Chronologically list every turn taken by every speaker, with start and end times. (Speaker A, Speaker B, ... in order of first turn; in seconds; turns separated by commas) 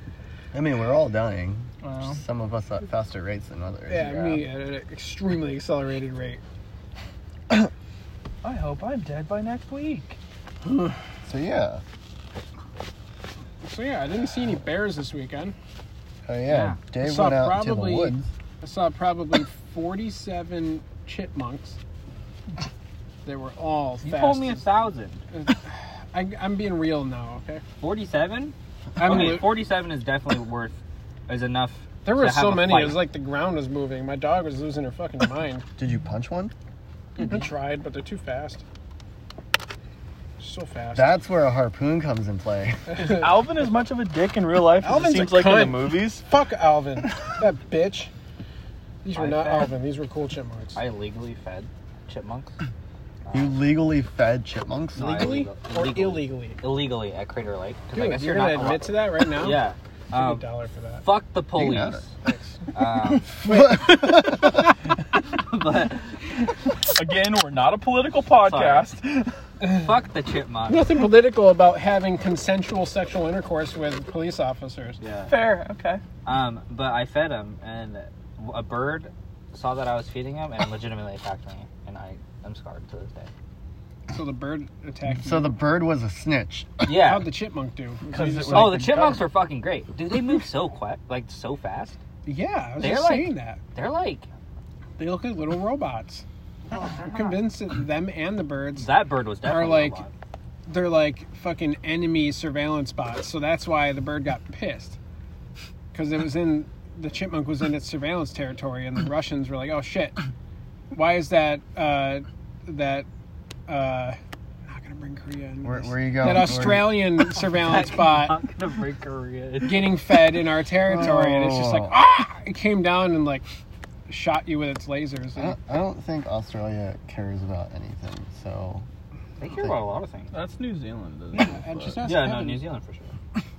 Speaker A: 0.5-4.4, Speaker B: 1.8-2.2, Speaker C: 3.9-6.4, Speaker B: 8.4-10.2, Speaker C: 10.6-10.9, Speaker A: 11.2-11.8, Speaker C: 13.6-15.5, Speaker A: 16.2-18.3, Speaker D: 16.5-16.8, Speaker C: 17.0-21.8, Speaker C: 23.2-24.6, Speaker D: 24.0-25.2, Speaker C: 25.3-27.6, Speaker D: 27.8-33.0, Speaker C: 29.0-29.5, Speaker C: 32.0-35.6, Speaker A: 35.8-36.5, Speaker D: 37.1-37.5, Speaker C: 37.2-38.6, Speaker C: 40.4-41.1, Speaker A: 40.9-42.9, Speaker C: 42.9-43.2, Speaker B: 42.9-46.2, Speaker C: 44.8-48.1, Speaker C: 49.0-50.8, Speaker D: 49.1-49.7, Speaker D: 50.7-52.5, Speaker D: 53.2-53.5, Speaker A: 53.3-55.3, Speaker D: 54.9-60.4, Speaker C: 55.0-56.6, Speaker C: 57.9-59.6, Speaker C: 60.1-61.0, Speaker D: 61.0-62.1, Speaker A: 61.5-62.0, Speaker D: 62.7-63.4, Speaker C: 63.4-64.5, Speaker A: 63.4-64.7, Speaker D: 65.3-66.2, Speaker B: 66.9-69.3, Speaker D: 68.4-68.9, Speaker C: 69.6-69.9, Speaker D: 69.6-70.8, Speaker C: 70.7-75.0, Speaker D: 75.0-75.3, Speaker B: 75.3-76.0, Speaker D: 76.2-83.3, Speaker C: 84.1-85.6, Speaker A: 85.2-86.9, Speaker D: 86.8-87.3, Speaker C: 86.9-88.9, Speaker B: 88.1-89.2, Speaker D: 88.5-92.0, Speaker C: 92.2-93.6, Speaker D: 92.8-94.2, Speaker C: 95.0-96.2, Speaker C: 97.0-98.9, Speaker D: 98.8-100.1, Speaker C: 99.4-100.0, Speaker C: 100.7-105.0, Speaker C: 105.9-110.2, Speaker C: 110.9-113.1, Speaker C: 113.7-118.4, Speaker A: 115.6-117.1, Speaker D: 117.5-120.0, Speaker C: 119.6-123.5, Speaker A: 120.8-122.0, Speaker C: 124.1-125.5, Speaker A: 125.3-128.8, Speaker D: 129.4-130.3, Speaker B: 130.3-132.0, Speaker C: 131.3-132.7, Speaker D: 132.0-133.1